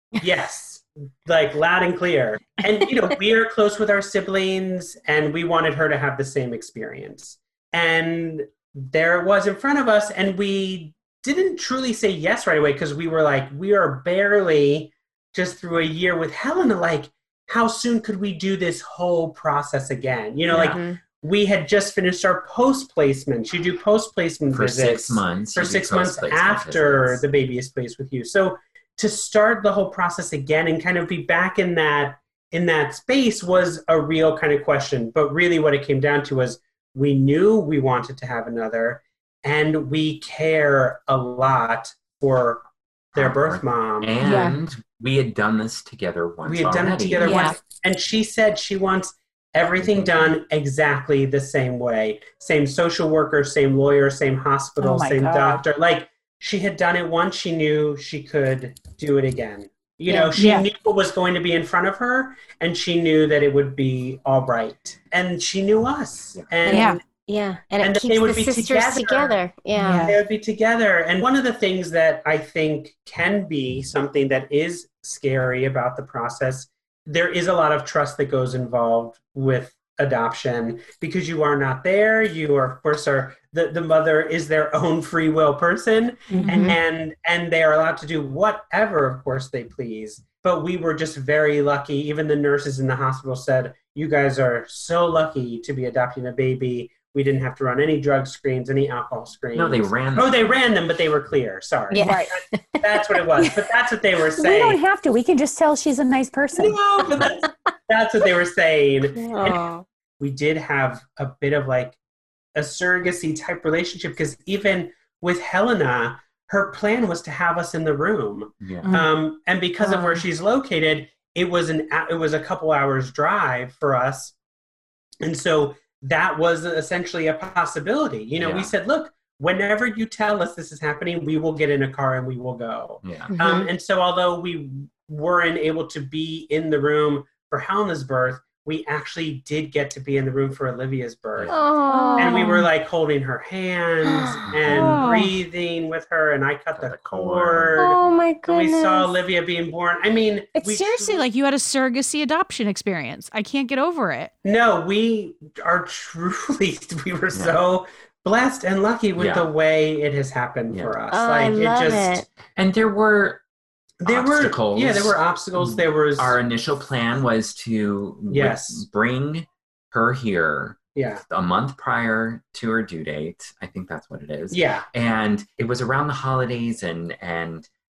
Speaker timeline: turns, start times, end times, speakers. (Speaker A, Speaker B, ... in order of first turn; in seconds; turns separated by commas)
Speaker A: 0.2-44.4, Speaker B: 20.5-20.8, Speaker C: 20.6-21.0, Speaker B: 24.5-27.2, Speaker B: 43.1-47.5, Speaker D: 44.2-44.5, Speaker A: 46.4-67.0, Speaker D: 47.2-47.5, Speaker B: 49.8-50.3, Speaker E: 54.8-55.6, Speaker C: 60.1-60.3, Speaker D: 60.3-60.6, Speaker C: 66.6-70.2, Speaker D: 66.7-67.0, Speaker A: 67.8-69.3, Speaker D: 69.7-70.2, Speaker A: 70.0-104.8, Speaker C: 86.3-86.8, Speaker D: 86.4-86.8, Speaker B: 99.5-100.5, Speaker C: 101.9-103.2, Speaker E: 102.0-102.4, Speaker E: 104.3-106.8, Speaker A: 106.5-109.6, Speaker C: 109.2-109.8, Speaker A: 110.2-112.0, Speaker A: 112.5-124.3, Speaker B: 118.6-118.9, Speaker D: 119.8-120.1, Speaker A: 125.2-151.2, Speaker B: 128.4-128.7, Speaker B: 133.0-133.3, Speaker C: 133.3-133.7, Speaker B: 141.3-141.6, Speaker C: 141.5-142.6, Speaker D: 141.9-142.6, Speaker E: 142.1-142.4, Speaker C: 144.0-144.4, Speaker B: 144.5-144.9, Speaker D: 144.7-145.3, Speaker B: 146.8-147.8, Speaker C: 147.8-149.1, Speaker D: 150.6-154.3, Speaker A: 154.4-162.2, Speaker B: 157.3-157.6, Speaker B: 159.2-159.5, Speaker C: 161.1-162.3, Speaker B: 162.6-163.4, Speaker A: 164.0-166.4, Speaker B: 164.0-177.7, Speaker A: 168.3-168.8, Speaker A: 170.9-171.2, Speaker A: 174.5-174.8